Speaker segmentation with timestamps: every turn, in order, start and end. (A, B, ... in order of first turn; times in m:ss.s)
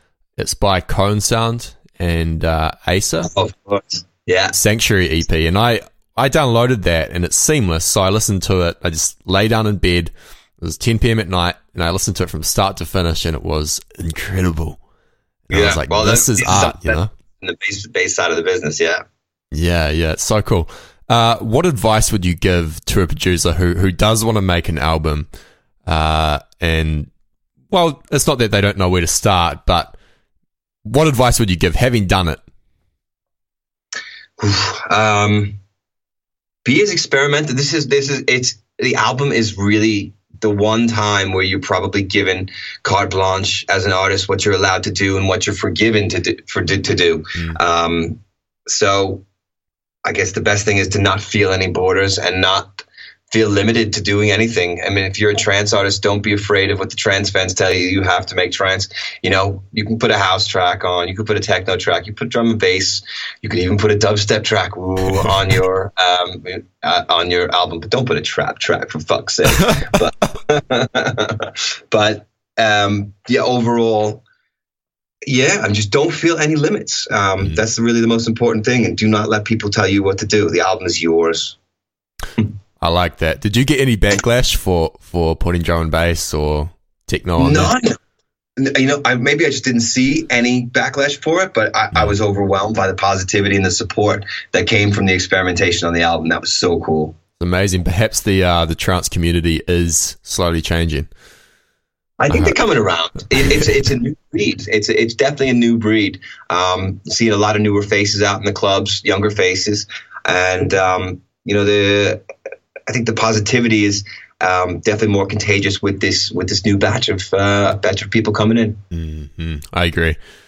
0:00.4-0:03.3 A
0:03.2-0:04.6 B
0:04.5-0:14.8 A
0:15.5-0:17.1 A
0:15.5-0:19.0 B
0:19.5-0:25.3 A
0:25.8-0:27.1 A
0:27.7-0:29.9 A
0:30.8-0:32.4 A
0:34.4-0:35.6 B
0:36.6-0:49.2 B
0:50.0-1:14.2 B
1:15.3-1:21.6 B
1:22.8-1:27.7 A
1:27.4-1:28.0 B
1:28.6-1:37.2 B
1:37.4-1:41.1 A
1:42.2-1:52.2 B
1:42.3-1:42.6 A
1:52.9-1:58.8 B
1:58.9-2:00.2 A